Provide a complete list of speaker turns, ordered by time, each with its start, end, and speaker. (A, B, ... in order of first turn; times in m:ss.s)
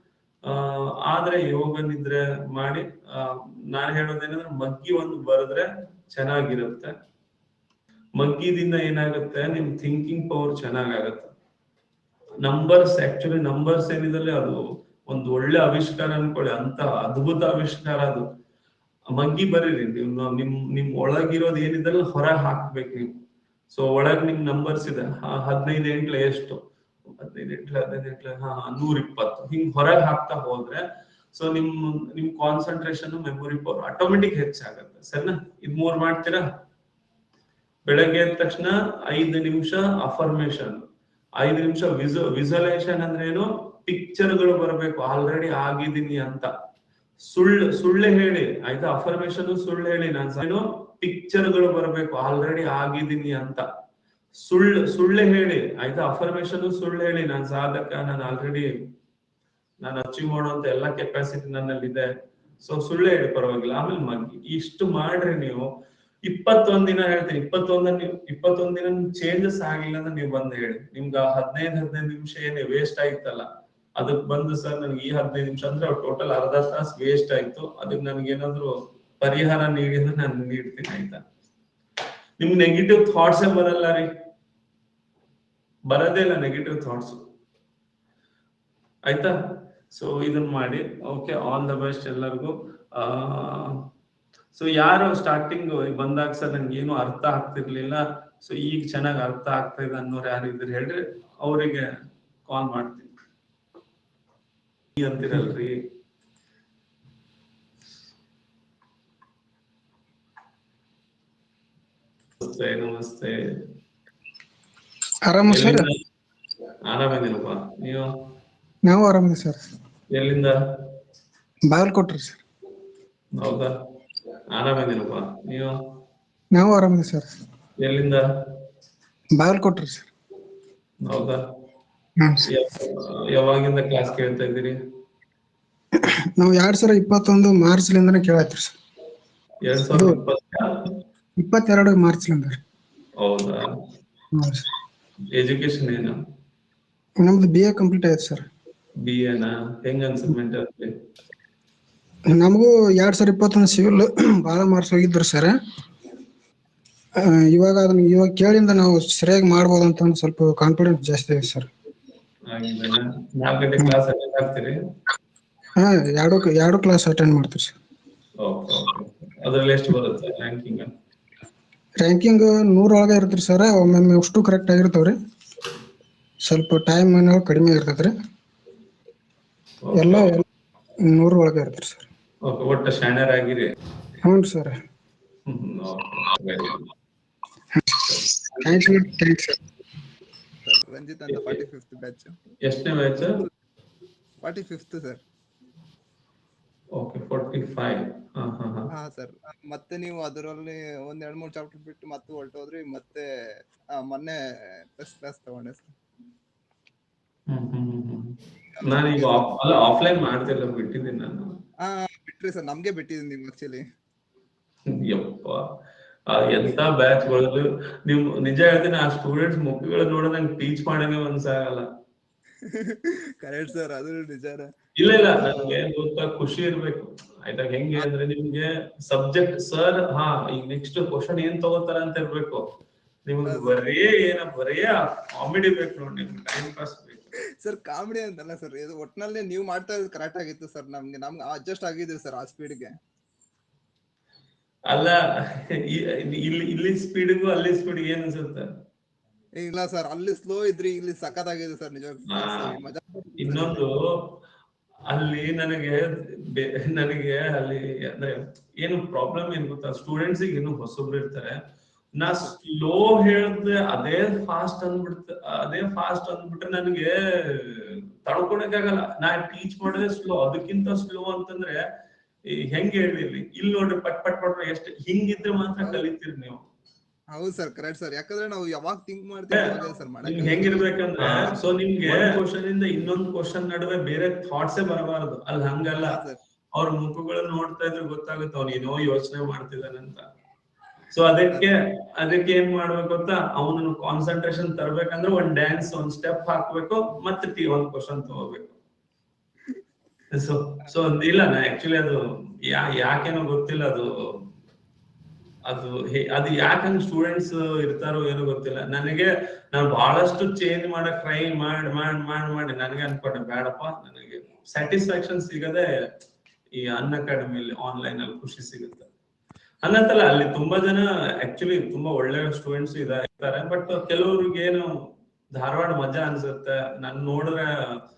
0:00.4-0:06.9 A
0:08.2-0:11.3 A
0:12.4-0:18.2 A
0:19.1-0:23.1 A
0:23.7-0:26.6 A
0:27.1-0:36.4 A
0:37.9-0:40.8 A
0:41.4-0:46.5 A
0:47.3-0:53.6 A
0:54.4-0:58.7 A
0:59.8-1:02.1 A
1:02.6-1:05.7 A
1:06.2-1:21.2 A
1:22.4-1:24.1 A
1:25.9-1:27.2 A
1:29.1-1:29.3 A
1:29.9-1:33.9 A
1:34.5-1:41.9 A
1:42.4-1:43.1 A
1:45.0-1:45.8 A
1:52.4-1:53.3 A
1:55.2-1:55.8 B
1:55.5-1:55.9 A
1:56.9-1:58.1 A
1:58.8-1:59.6 B
2:00.1-2:00.5 A
2:01.7-2:02.4 B
2:03.3-2:03.7 A
2:04.5-2:05.7 A
2:06.5-2:07.3 B
2:07.8-2:08.2 A
2:09.4-2:10.1 B
2:11.0-2:11.4 A
2:12.4-2:14.8 A
2:16.0-2:18.8 B
2:19.6-2:20.9 A
2:19.9-2:20.2 B
2:21.4-2:22.6 B
2:23.2-2:23.7 A
2:24.3-2:24.7 B
2:25.3-2:26.2 A
2:27.2-2:28.5 B
2:29.0-2:30.9 A
2:32.3-2:35.5 B
2:37.2-2:41.7 B
2:42.5-2:44.8 A
2:45.8-2:47.8 B
2:48.4-2:50.9 A
2:52.0-2:55.2 B
2:56.4-2:58.1 B
2:59.8-3:00.4 A
2:59.9-3:00.4 B
3:01.0-3:02.0 B
3:02.4-3:03.7 A
3:04.2-3:04.8 B
3:05.5-3:06.9 A
3:08.1-3:08.9 A
3:08.6-3:09.6 B
3:10.6-3:12.4 C
3:11.3-3:11.6 A
3:12.6-3:13.4 A
3:14.4-3:15.2 C
3:16.9-3:18.9 A
3:18.9-3:23.2 C
3:24.0-3:25.9 C
3:27.5-3:31.5 A
3:28.7-3:29.5 C
3:31.8-3:33.8 C
3:34.9-3:35.7 A
3:36.3-3:41.9 A
3:42.6-3:45.8 C
3:45.0-3:52.6 A
3:53.3-3:57.3 A
3:53.4-3:53.8 C
3:57.6-4:02.9 C
4:04.9-4:08.7 A
4:09.6-4:13.8 C
4:12.3-4:12.8 A
4:13.4-4:14.3 A
4:15.1-4:21.6 A
4:22.2-4:31.8 A
4:32.5-4:36.6 A
4:37.3-4:41.5 C
4:39.5-4:46.2 A
4:42.0-4:42.4 C
4:46.0-4:46.4 C
4:46.7-4:50.2 A
4:51.1-4:58.7 A
5:00.3-5:04.1 A
5:05.6-5:15.9 A
5:16.8-5:19.1 A
5:19.8-5:24.9 A
5:25.5-5:27.7 A